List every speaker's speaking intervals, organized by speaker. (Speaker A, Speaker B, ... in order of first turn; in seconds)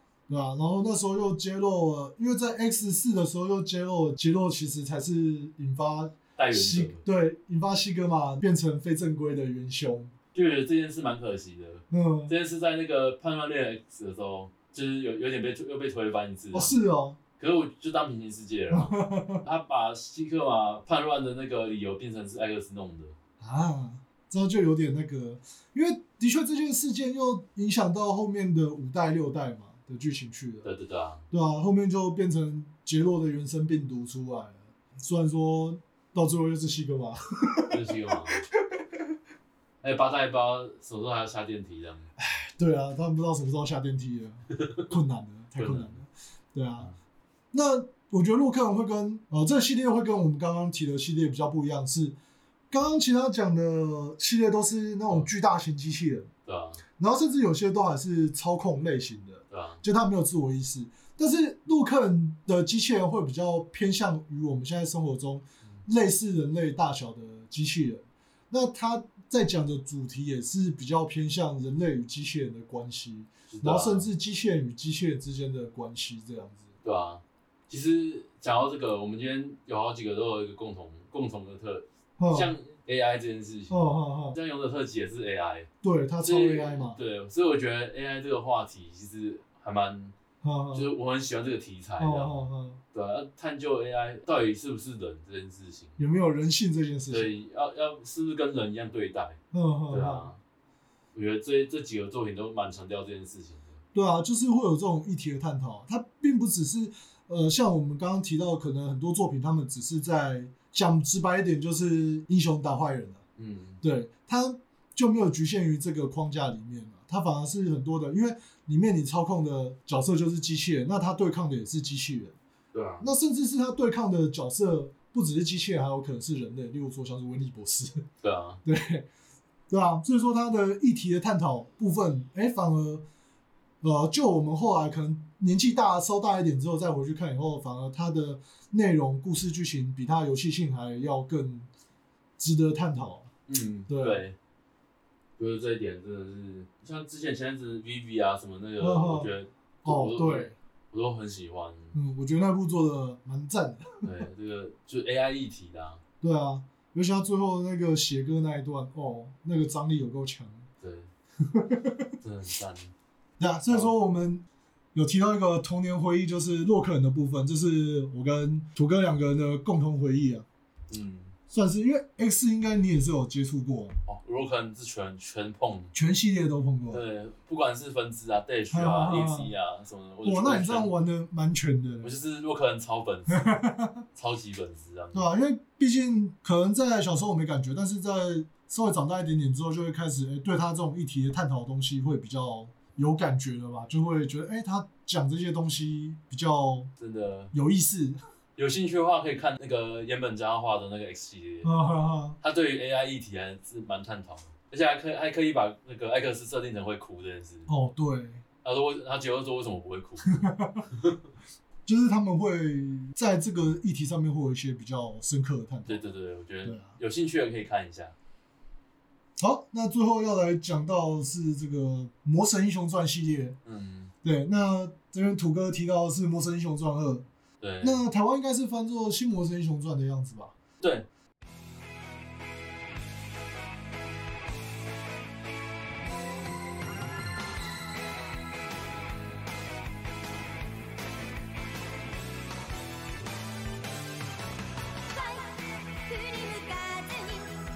Speaker A: 0.3-10.1, 11.9-12.3, 16.5-17.2, 18.7-19.4, 23.4-30.7, 31.3-39.0, 42.2-46.9, 47.5-52.2, 52.7-56.3, 57.0-76.7, 82.2-82.5, 83.7-84.4, 85.8-87.0, 90.4-90.9, 92.0-92.8, 96.0-97.3, 99.5-100.3, 103.9-113.2, 113.8-122.4, 123.0-128.0, 128.7-129.1, 129.7-133.0, 133.8-141.7, 142.4-143.3, 143.9-144.2, 148.8-149.3, 149.8-150.5, 151.9-154.1, 156.2-160.7, 161.4-162.1, 163.4-170.5, 171.5-174.0, 175.9-177.0, 178.7-179.5, 180.2-182.1, 183.4-184.0, 185.1-196.9, 197.5-198.2, 201.6-202.4, 207.7-208.4, 210.4-210.8, 211.9-216.1, 216.6-217.0, 219.4-223.6, 224.2-227.2, 227.8-230.5
Speaker B: 6.4-7.0, 10.3-16.8, 17.4-23.1, 30.6-31.2, 37.7-38.4, 39.8-42.1, 44.5-44.9, 45.6-46.0, 56.5-56.8, 59.5-59.8, 73.5-74.1, 76.8-85.7, 86.2-90.1, 90.7-96.0, 97.1-99.4, 99.9-100.4, 101.1-103.8, 113.4-113.8, 122.7-123.1, 128.2-128.6, 143.5-144.3, 145.4-152.0, 154.0-156.0, 160.8-161.1, 162.2-162.9, 170.9-171.3, 174.1-175.9, 176.9-180.9, 182.0-185.3, 197.0-197.5, 198.6-201.7, 202.4-207.7, 208.6-211.3, 215.9-218.2, 223.7-224.1, 227.6-228.0, 230.8-231.1
Speaker C: 245.1-247.6